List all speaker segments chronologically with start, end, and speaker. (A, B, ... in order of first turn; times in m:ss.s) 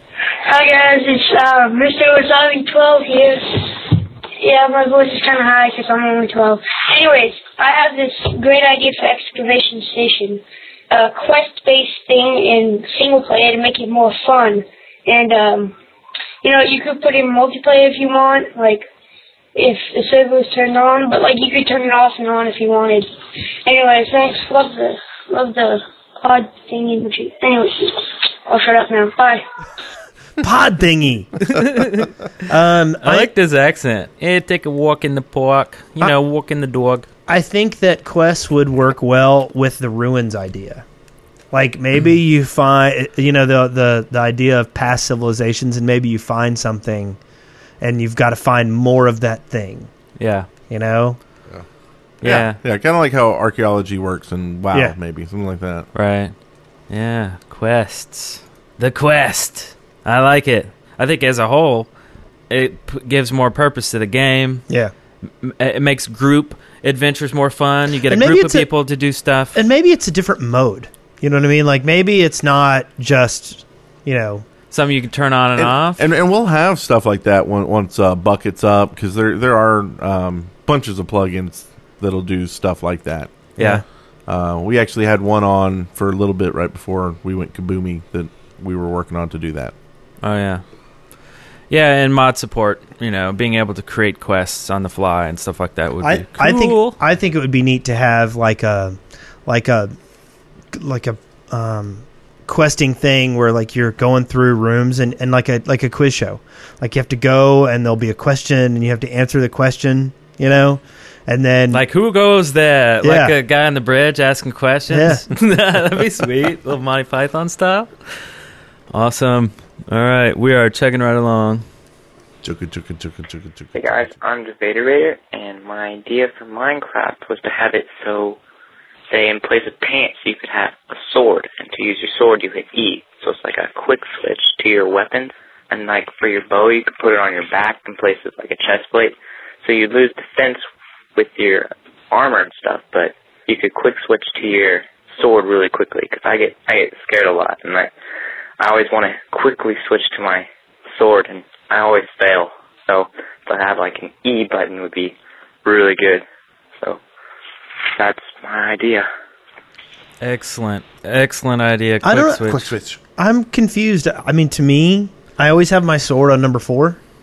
0:00.4-0:15.8 A
0:16.4-0:18.9 A
0:19.6-0:23.1 A
0:23.6-0:29.4 A
0:30.4-0:31.3 B
0:31.5-0:32.1 C
0:32.5-0:33.3 B
0:33.0-0:37.1 C
0:37.3-0:40.8 B
0:41.5-0:47.2 B
0:47.8-0:49.9 B
0:50.2-0:50.5 C
0:50.7-0:51.2 B
0:52.2-0:52.6 C
0:52.2-0:55.9 D
0:55.9-0:56.3 C
0:56.9-1:01.9 C
1:02.5-1:04.6 C
1:05.4-1:09.6 C
1:08.1-1:08.7 B
1:09.5-1:14.5 B
1:14.7-1:16.0 C
1:15.6-1:23.3 D
1:23.6-1:23.8 C
1:24.3-1:29.7 D
1:30.2-1:30.6 C
1:31.7-1:37.0 C
1:36.0-1:39.9 B
1:40.7-1:51.8 B
1:51.7-1:57.9 C
1:53.0-1:53.4 B
1:54.9-1:55.2 B
1:58.9-2:01.6 C
2:02.4-2:03.7 D
2:03.8-2:08.4 E
2:09.1-2:20.6 E
2:21.2-2:27.9 E
2:28.6-2:36.2 E
2:38.0-2:39.1 E
2:40.2-2:42.7 C
2:42.0-2:42.6 B
2:42.5-2:43.0 D
2:43.2-2:47.0 B